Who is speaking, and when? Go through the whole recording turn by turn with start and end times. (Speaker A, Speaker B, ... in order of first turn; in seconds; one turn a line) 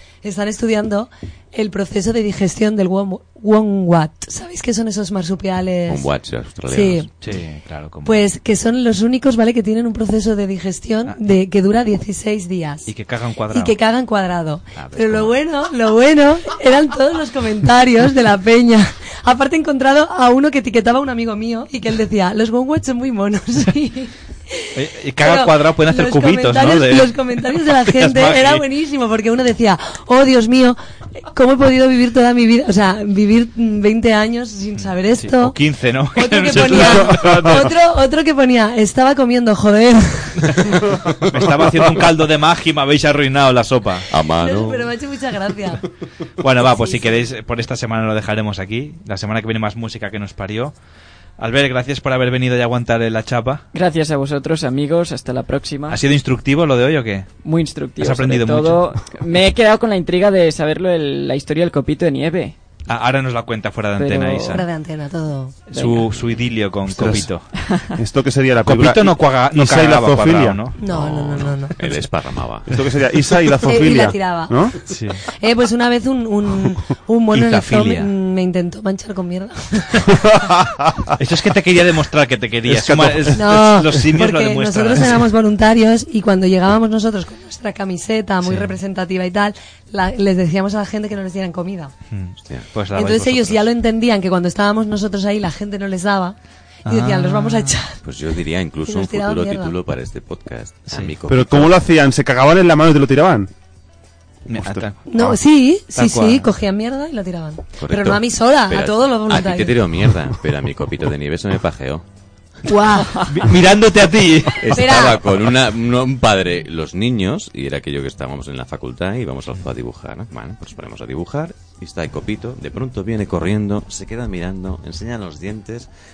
Speaker A: 0.2-6.1
Speaker B: 5.9-7.1
Speaker A: 6.7-7.1
Speaker C: 7.2-8.2
Speaker A: 8.1-12.9
Speaker C: 12.9-13.7
Speaker A: 13.5-30.8
Speaker C: 15.0-15.3
Speaker C: 24.8-28.6
Speaker A: 31.3-35.5
Speaker C: 34.8-37.8
Speaker A: 36.1-40.7
Speaker D: 36.7-37.6
Speaker D: 41.0-41.5
Speaker C: 41.2-44.1
Speaker B: 44.1-44.9
Speaker A: 44.4-45.9
Speaker C: 46.4-50.7
Speaker A: 46.6-47.1
Speaker C: 51.4-53.6
Speaker E: 53.7-56.0
Speaker C: 55.9-57.3
Speaker E: 57.4-62.5
Speaker C: 58.0-58.8
Speaker C: 62.9-64.7
Speaker E: 64.0-64.6
Speaker A: 64.5-65.5
Speaker E: 65.7-66.1
Speaker C: 65.7-67.5
Speaker B: 66.1-66.5
Speaker D: 67.0-67.3
Speaker D: 68.0-70.6
Speaker C: 68.7-70.8
Speaker A: 70.8-71.8
Speaker B: 70.9-72.8
Speaker D: 72.7-74.8
Speaker A: 73.7-74.6
Speaker C: 74.9-75.2
Speaker A: 75.3-80.1
Speaker C: 77.3-78.1
Speaker D: 80.4-81.1
Speaker C: 81.2-85.2
Speaker D: 82.7-83.4
Speaker A: 83.3-91.9
Speaker C: 88.4-88.7
Speaker C: 92.1-93.7
Speaker A: 93.0-96.3
Speaker C: 96.9-97.8
Speaker A: 96.9-98.0
Speaker B: 98.0-101.7
Speaker A: 98.9-99.7
Speaker C: 100.9-101.1
Speaker D: 101.3-103.5
Speaker C: 104.5-105.1
Speaker D: 104.5-104.8
Speaker A: 105.1-109.8
Speaker C: 105.9-106.5
Speaker B: 107.8-112.0
Speaker A: 112.7-113.2
Speaker E: 113.2-113.4
Speaker C: 113.3-115.0
Speaker B: 114.6-125.9
Speaker A: 114.8-115.2